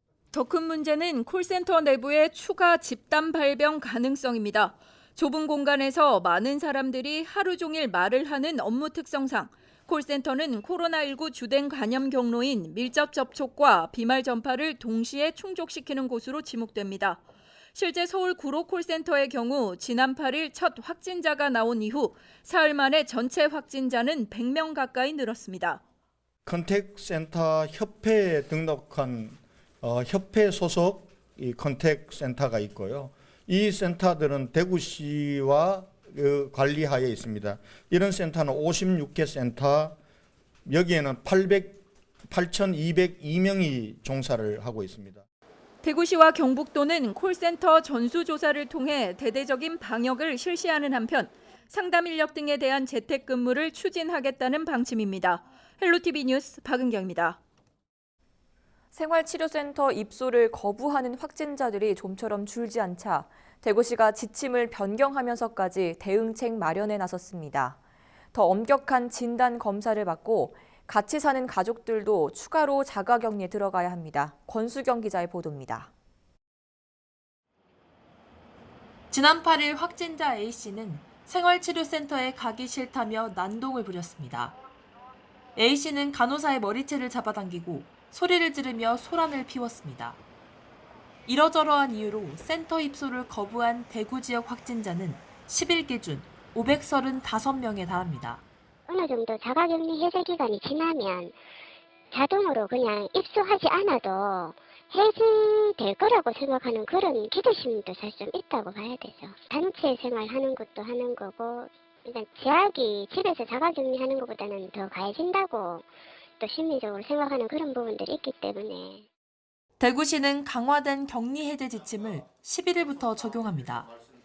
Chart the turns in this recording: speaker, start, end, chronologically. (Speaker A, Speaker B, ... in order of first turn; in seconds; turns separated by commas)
Speaker A: 0.3-17.2, Speaker A: 17.7-25.8, Speaker B: 26.4-40.0, Speaker B: 40.6-45.2, Speaker A: 45.8-57.4, Speaker C: 58.9-67.8, Speaker C: 68.3-75.9, Speaker D: 79.1-84.5, Speaker D: 85.5-90.2, Speaker D: 91.2-98.4, Speaker E: 98.9-101.4, Speaker E: 102.1-115.9, Speaker E: 116.4-119.0, Speaker D: 119.8-123.9